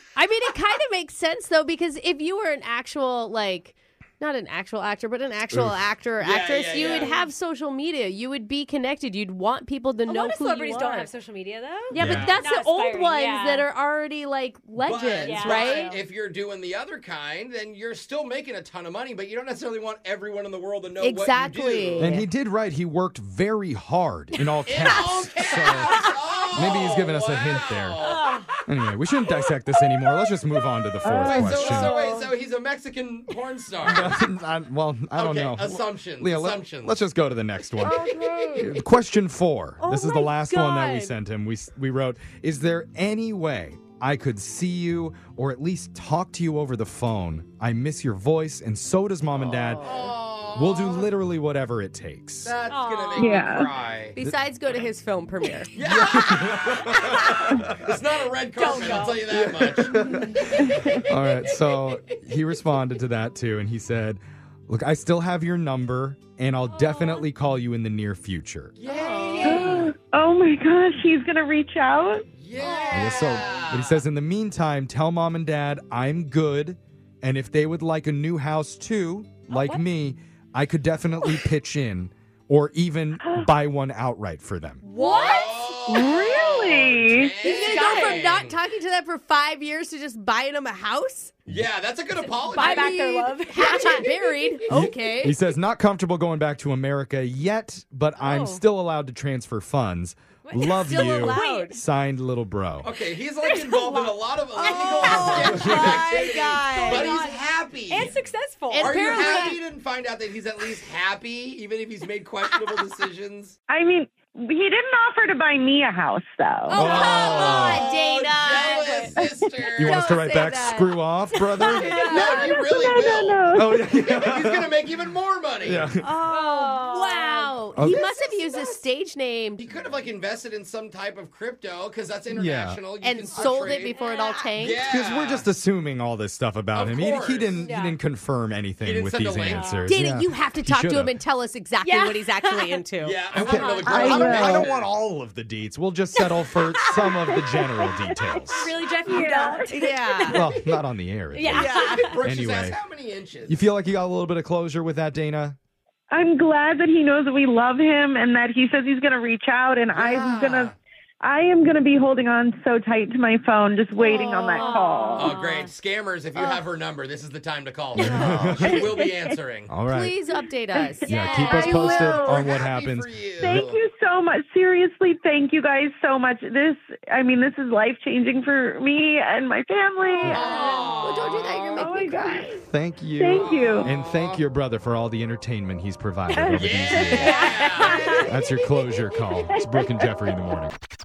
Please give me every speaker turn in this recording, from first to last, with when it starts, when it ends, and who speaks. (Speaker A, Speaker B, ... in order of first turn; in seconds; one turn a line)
Speaker A: 0.2-11.1
Speaker B: 5.5-5.9
Speaker C: 6.2-7.2
Speaker D: 6.9-7.3
Speaker D: 10.1-13.7
Speaker A: 11.9-15.9
Speaker B: 12.0-12.4
Speaker C: 12.0-12.4
Speaker C: 14.8-22.2
Speaker D: 15.2-16.0
Speaker A: 21.0-22.3
Speaker B: 22.0-28.1
Speaker C: 24.6-28.4
Speaker D: 28.0-28.5
Speaker B: 28.7-32.0
Speaker E: 31.0-32.3
Speaker C: 31.2-34.2
Speaker B: 33.8-38.0
Speaker C: 35.1-37.0
Speaker A: 38.0-38.6
Speaker E: 38.0-38.6
Speaker B: 38.5-52.5
Speaker A: 39.8-41.0
Speaker D: 40.3-41.0
Speaker C: 49.3-51.1
Speaker A: 49.5-50.1
Speaker C: 52.4-54.2
Speaker D: 52.7-53.6
Speaker E: 53.2-53.7
Speaker A: 54.2-55.7
Speaker C: 55.7-62.0
Speaker B: 55.8-58.0
Speaker D: 56.8-57.6
Speaker D: 58.5-59.3
Speaker B: 59.3-68.8
Speaker E: 60.6-61.0
Speaker D: 66.7-67.2
Speaker C: 68.8-70.0
Speaker A: 68.9-69.8
Speaker E: 69.4-72.3
Speaker C: 72.3-74.0
Speaker D: 72.5-73.3
Speaker B: 72.9-84.8
Speaker D: 79.5-79.8
Speaker E: 83.2-83.5
Speaker A: 84.8-85.5
Speaker D: 84.8-86.4
Speaker C: 85.0-88.6
Speaker E: 85.9-87.3
Speaker A: 87.4-91.4
Speaker D: 87.5-88.2
Speaker C: 91.5-93.1
Speaker D: 92.5-94.6
Speaker A: 92.5-95.4
Speaker B: 94.7-102.9
Speaker D: 98.2-98.6
Speaker D: 100.5-101.8
Speaker A: 100.8-101.8
Speaker C: 102.8-108.2
Speaker D: 103.4-109.6
Speaker A: 104.6-107.3
Speaker B: 105.6-105.9
Speaker A: 108.7-109.6
Speaker C: 108.8-113.6
Speaker E: 113.7-116.9
Speaker A: 116.7-122.5
Speaker D: 116.7-117.7
Speaker C: 116.8-120.0
Speaker B: 116.8-117.8
Speaker D: 118.4-118.9
Speaker E: 119.1-119.4
Speaker B: 119.8-122.0
Speaker D: 121.6-122.5
Speaker C: 121.8-125.9
Speaker E: 122.0-123.8
Speaker B: 123.5-124.7
Speaker B: 125.7-126.2
Speaker A: 126.0-129.6
Speaker D: 126.2-127.6
Speaker B: 127.8-128.0
Speaker C: 127.9-128.8
Speaker C: 129.6-133.9
Speaker B: 132.3-132.8
Speaker A: 133.0-134.8
Speaker B: 133.3-133.6
Speaker D: 133.9-134.5
Speaker C: 134.6-135.5
Speaker B: 134.9-141.2
Speaker C: 136.7-137.7
Speaker D: 137.5-138.0
Speaker C: 138.8-139.9
Speaker D: 139.4-139.9
Speaker A: 139.8-143.2
Speaker D: 141.8-142.8
Speaker C: 143.0-144.9
Speaker B: 143.3-148.8
Speaker D: 143.3-144.1
Speaker E: 143.7-144.7
Speaker D: 146.3-150.3
Speaker E: 149.1-149.7
Speaker A: 149.7-150.5
Speaker B: 150.3-152.8
Speaker C: 150.3-150.8
Speaker D: 151.3-152.2
Speaker C: 151.4-153.7
Speaker A: 151.5-152.0
Speaker B: 153.5-155.6
Speaker E: 156.1-165.3
Speaker C: 159.9-160.8
Speaker A: 164.0-165.3
Speaker D: 164.5-165.7
Speaker C: 165.2-169.7
Speaker B: 168.0-168.8
Speaker E: 168.0-169.4
Speaker B: 169.7-170.2
Speaker A: 169.9-171.2
Speaker E: 170.7-172.5
Speaker D: 171.0-172.4
Speaker B: 171.1-173.6
Speaker C: 172.2-173.8
Speaker E: 173.4-180.9
Speaker A: 180.2-182.6
Speaker C: 180.3-181.9
Speaker D: 180.4-181.2
Speaker E: 181.8-182.6
Speaker B: 182.6-187.5
Speaker E: 183.2-183.9
Speaker C: 183.3-184.4
Speaker E: 186.3-188.8
Speaker C: 186.5-188.2
Speaker D: 187.1-188.2
Speaker B: 188.2-190.8
Speaker E: 189.5-190.3